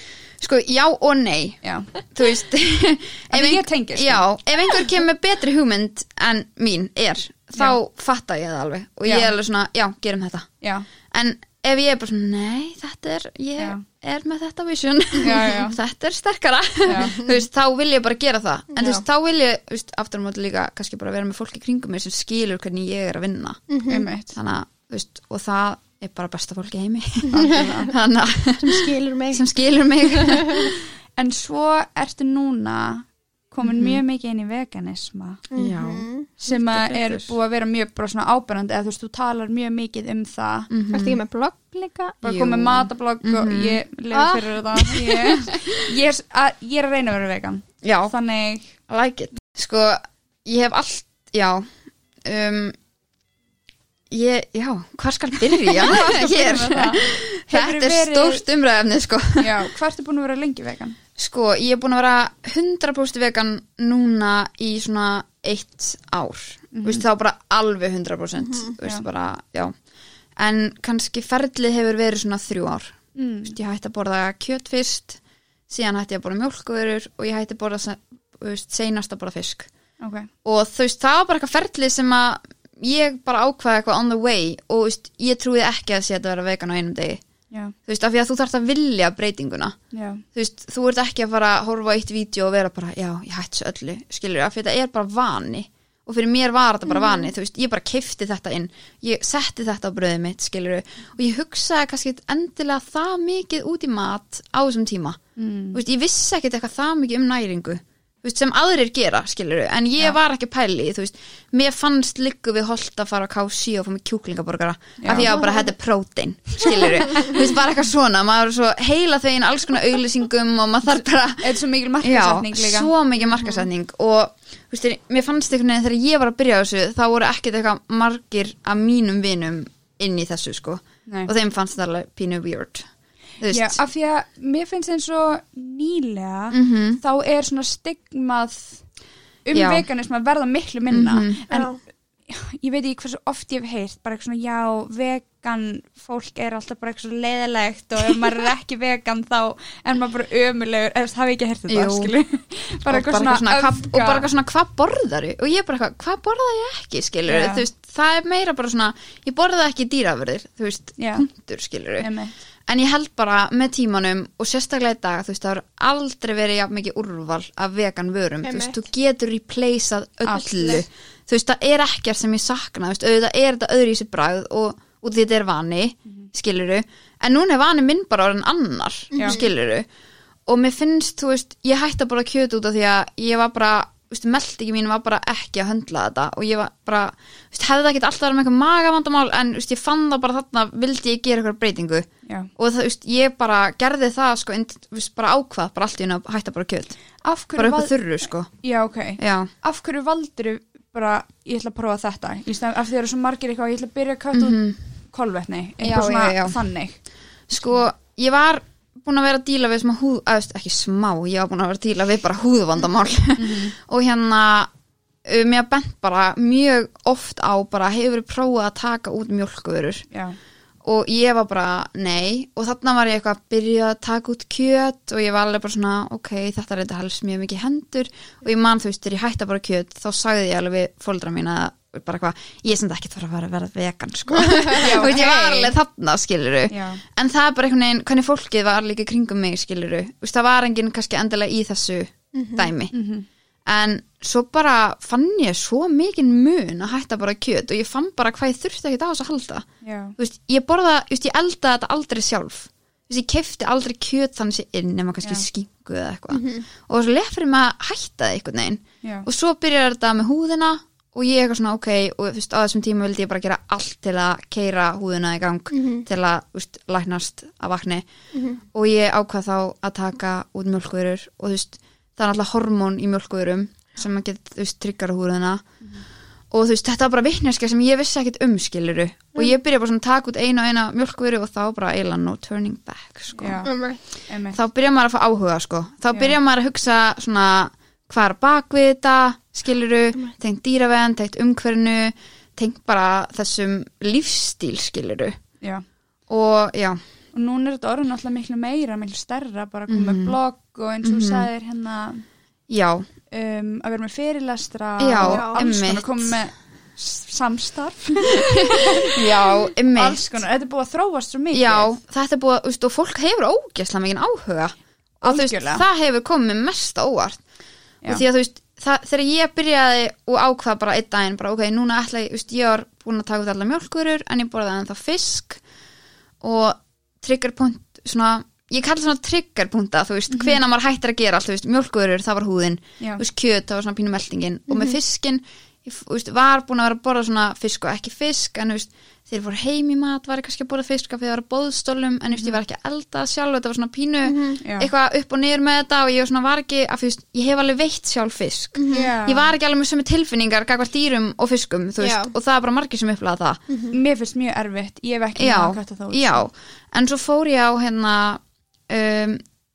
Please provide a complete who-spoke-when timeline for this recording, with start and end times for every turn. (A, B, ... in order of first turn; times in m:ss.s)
0:00.4-0:10.5 A
0:01.6-0:01.9 B
0:03.3-0:04.2 B
0:09.1-0:09.3 B
0:10.6-0:10.9 B
0:11.1-0:23.6 A
0:15.2-0:15.8 B
0:16.8-0:17.2 B
0:18.7-0:19.0 C
0:23.7-0:24.1 C
0:23.9-0:24.4 B
0:24.3-0:30.8 A
0:27.3-0:27.9 C
0:27.3-0:27.9 B
0:28.6-0:29.5 C
0:30.0-0:30.7 C
0:31.2-0:35.4 B
0:33.6-0:34.0 A
0:35.5-0:36.3 C
0:35.6-0:37.3 A
0:36.4-0:40.7 B
0:40.7-0:41.2 A
0:40.9-0:42.2 C
0:42.2-0:48.7 B
0:42.2-0:43.8 A
0:44.1-0:44.5 C
0:44.9-0:45.8 A
0:47.8-0:48.1 A
0:48.9-0:51.7 A
0:52.2-0:52.8 A
0:54.1-0:59.6 A
0:55.7-0:58.4 B
0:59.4-1:01.0 B
1:01.2-1:09.7 A
1:06.7-1:07.0 B
1:08.4-1:08.7 C
1:10.4-1:19.7 A
1:13.2-1:13.6 B
1:20.0-1:20.3 B
1:20.4-1:27.2 A
1:27.9-1:29.8 A
1:29.9-1:30.2 B
1:30.4-1:45.2 A
1:36.9-1:37.3 C
1:45.4-1:45.8 B
1:45.7-2:12.9 A
1:55.0-1:55.4 B
2:01.4-2:02.9 B
2:11.1-2:11.3 B
2:13.4-2:13.8 A
2:13.5-2:18.8 B
2:16.5-2:17.0 A
2:19.4-2:21.7 B
2:19.5-2:19.9 A
2:20.9-2:21.4 A
2:21.5-2:21.8 C
2:22.3-2:34.3 B
2:31.7-2:32.1 A
2:32.9-2:42.1 A
2:37.3-2:37.6 B
2:41.0-2:41.3 B
2:42.0-2:42.3 B
2:42.7-2:59.9 A
2:48.4-2:48.8 C
2:50.3-2:50.8 B
2:59.1-2:59.5 C
2:59.2-2:59.4 B
3:00.5-3:17.0 A
3:17.2-3:17.9 B
3:17.6-3:18.5 A
3:18.6-3:24.6 B
3:19.2-3:19.5 A
3:24.3-3:24.8 A
3:25.1-3:27.0 B
3:25.8-3:26.6 A
3:27.5-3:34.7 A
3:33.4-3:33.8 B
3:35.2-3:40.1 A
3:40.1-3:40.4 B
3:40.8-4:02.9 A
3:54.3-3:55.2 C
3:54.8-3:55.7 B
3:56.7-3:57.0 B
4:02.3-4:02.7 C
4:02.9-4:03.3 B
4:03.7-4:09.7 A
4:09.8-4:10.2 B
4:10.2-4:28.1 A
4:16.3-4:16.6 C
4:19.0-4:19.3 B
4:25.7-4:26.1 C
4:28.3-4:28.6 C
4:28.7-4:35.6 A
4:36.5-4:43.7 A
4:43.4-4:43.7 B
4:43.6-4:44.0 C
4:44.3-4:44.6 B
4:44.5-4:55.4 A
4:56.3-4:57.0 A
4:57.3-5:02.2 B
4:59.9-5:00.4 A
5:01.0-5:01.5 A
5:02.7-5:03.1 A
5:03.3-5:11.9 B
5:05.0-5:06.4 A
5:05.2-5:05.6 C
5:08.3-5:10.2 A
5:11.5-5:17.4 A
5:15.2-5:15.8 B
5:18.0-5:25.6 A
5:26.4-5:53.6 A
5:30.3-5:30.6 B
5:34.7-5:35.0 C
5:44.2-5:44.6 C
5:44.6-5:44.9 B
5:48.8-5:49.1 C
5:48.9-5:49.5 B
5:52.0-5:52.3 C
5:53.7-5:54.0 C
5:53.9-5:56.5 B
5:55.4-5:59.4 A